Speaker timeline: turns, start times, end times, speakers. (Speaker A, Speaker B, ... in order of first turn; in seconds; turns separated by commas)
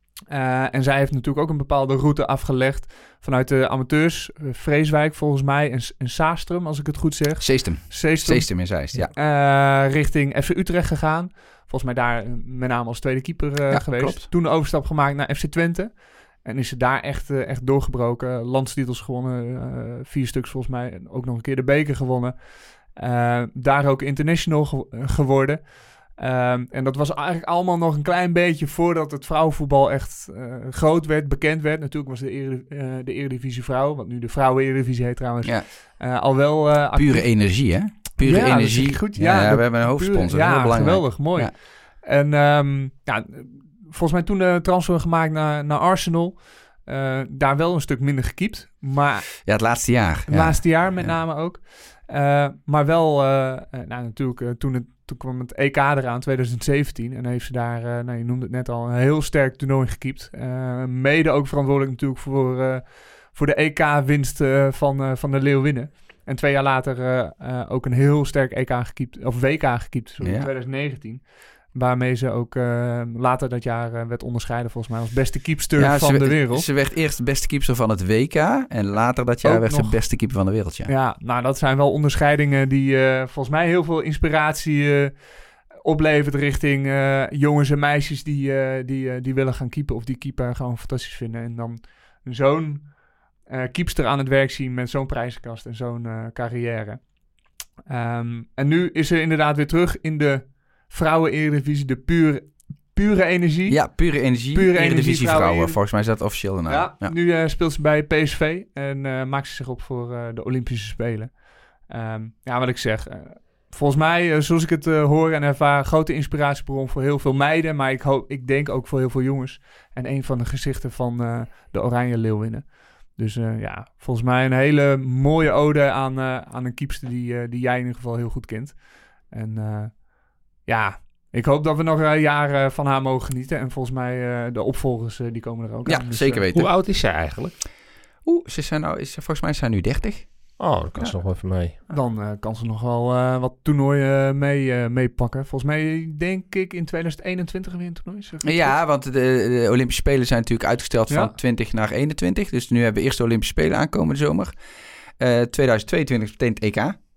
Speaker A: 0.3-37.5, Speaker B: 7.4-9.1, Speaker B: 13.7-14.3, Speaker B: 36.9-41.5, Speaker A: 38.2-49.5, Speaker B: 49.5-51.2, Speaker A: 50.3-76.7, Speaker B: 70.2-70.5, Speaker B: 75.8-80.9, Speaker A: 79.4-80.3, Speaker A: 80.9-97.1, Speaker A: 97.9-105.9, Speaker B: 103.7-107.1, Speaker A: 106.7-136.4, Speaker B: 135.8-136.7, Speaker C: 136.5-137.5, Speaker B: 138.2-140.3, Speaker C: 140.6-141.7, Speaker A: 141.9-148.8, Speaker B: 148.4-154.5, Speaker B: 155.2-157.0